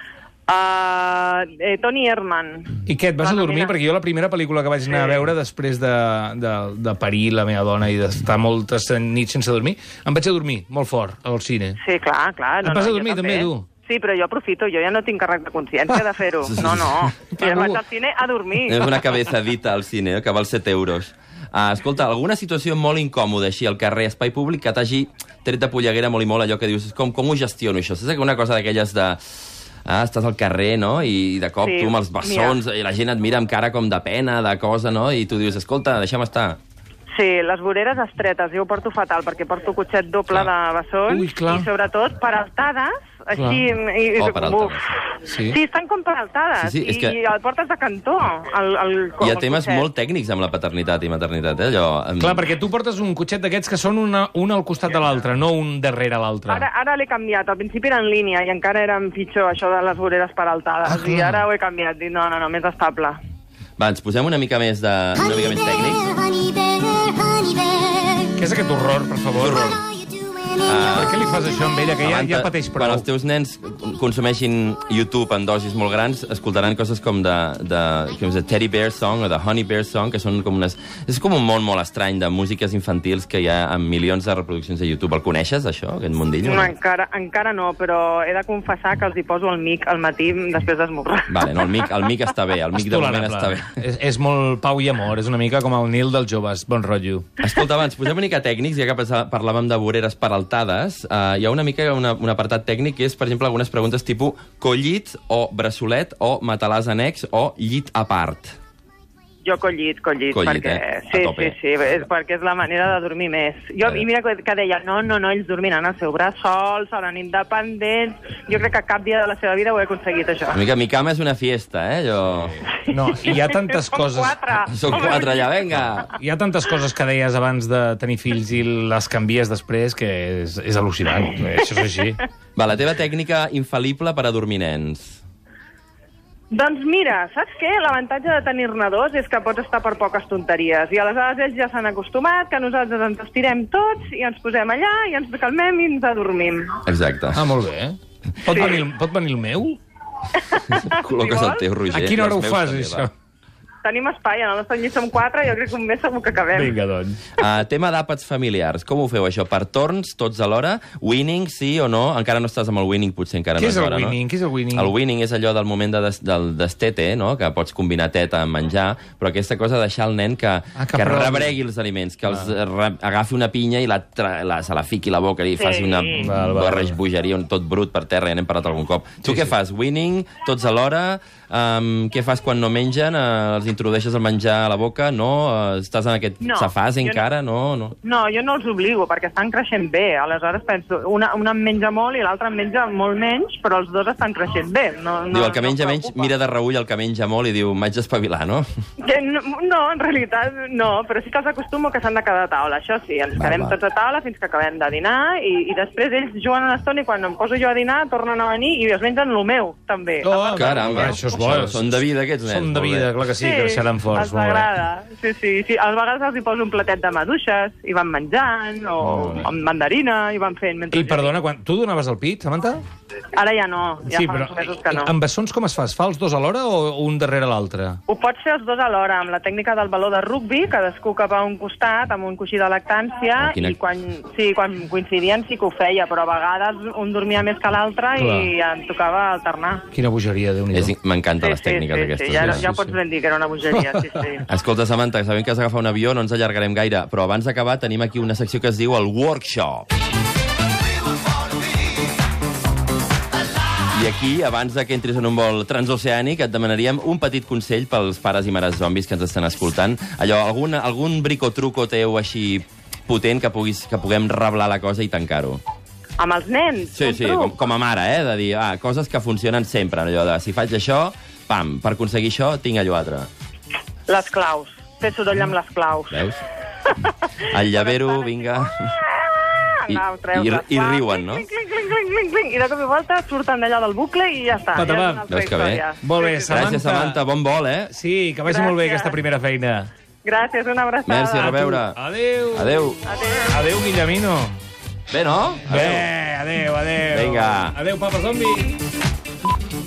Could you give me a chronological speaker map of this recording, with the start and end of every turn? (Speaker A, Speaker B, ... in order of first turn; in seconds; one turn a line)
Speaker A: 0.5-3.7
Speaker B: 2.9-11.8
Speaker A: 4.9-5.2
Speaker A: 11.8-18.9
Speaker B: 12.6-13.7
Speaker C: 16.4-16.9
Speaker B: 16.6-17.8
Speaker C: 18.6-36.6
Speaker A: 31.6-32.6
Speaker A: 37.1-44.8
Speaker B: 41.1-41.7
Speaker B: 43.3-43.6
Speaker C: 44.2-45.0
Speaker B: 45.3-45.6
Speaker A: 45.4-49.9
Speaker C: 46.6-47.2
Speaker C: 49.2-52.5
Speaker B: 52.2-56.6
Speaker A: 56.5-63.2
Speaker B: 60.8-61.5
Speaker C: 63.8-66.1
Speaker D: 65.2-68.3
Speaker B: 68.3-69.8
Speaker C: 69.4-69.8
Speaker D: 69.9-70.8
Speaker C: 70.6-71.2
Speaker B: 70.9-73.0
Speaker C: 72.0-86.7
Speaker A: 86.4-91.4
Speaker C: 91.3-93.7
Speaker B: 92.7-97.2
Speaker C: 97.4-108.5
Speaker A: 109.4-120.6
Speaker C: 110.3-111.5
Speaker C: 120.5-122.6
Speaker B: 122.8-124.8
Speaker A: 122.9-125.5
Speaker C: 124.7-126.1
Speaker B: 126.1-132.2
Speaker C: 132.6-135.2
Speaker A: 136.5-146.8
Speaker C: 146.8-147.4
Speaker B: 147.3-149.8
Speaker A: 150.4-151.6
Speaker C: 150.7-153.1
Speaker B: 151.9-153.1
Speaker A: 153.8-156.7
Speaker B: 156.5-157.2
Speaker C: 157.4-164.2
Speaker B: 163.6-164.9
Speaker C: 164.7-187.9
Speaker B: 170.8-171.5
Speaker A: 175.6-176.3
Speaker B: 176.2-177.0
Speaker B: 179.2-179.5
Speaker A: 186.4-187.2
Speaker A: 188.0-196.3
Speaker C: 195.3-198.7
Speaker A: 199.0-211.1
Speaker C: 203.4-203.8
Speaker B: 210.2-214.7
Speaker C: 210.5-213.1
Speaker A: 213.3-221.4
Speaker B: 219.0-219.5
Speaker B: 220.9-222.8
Speaker A: 223.3-225.1
Speaker B: 224.0-228.0
Speaker A: 228.1-239.8
Speaker C: 233.4-233.7
Speaker B: 238.2-238.5
Speaker B: 239.9-240.9
Speaker C: 240.7-242.7
Speaker A: 241.4-244.4
Speaker B: 242.4-242.9
Speaker B: 243.7-244.1
Speaker C: 244.5-249.9
Speaker C: 253.9-265.6
Speaker A: 266.2-267.5
Speaker C: 266.9-273.3
Speaker A: 274.1-276.2
Speaker C: 276.1-276.4
Speaker C: 277.5-278.9
Speaker A: 277.7-286.5
Speaker C: 279.9-281.4
Speaker B: 284.7-285.3
Speaker C: 285.3-285.8
Speaker B: 286.0-287.2
Speaker C: 286.5-287.9
Speaker B: 287.9-289.9
Speaker A: 288.5-289.1
Speaker A: 290.2-291.7
Speaker C: 291.1-292.0
Speaker B: 291.4-292.8
Speaker C: 292.5-293.0
Speaker A: 293.0-293.5
Speaker B: 293.5-294.5
Speaker C: 295.1-296.1
Speaker B: 295.7-298.8
Speaker C: 297.1-297.8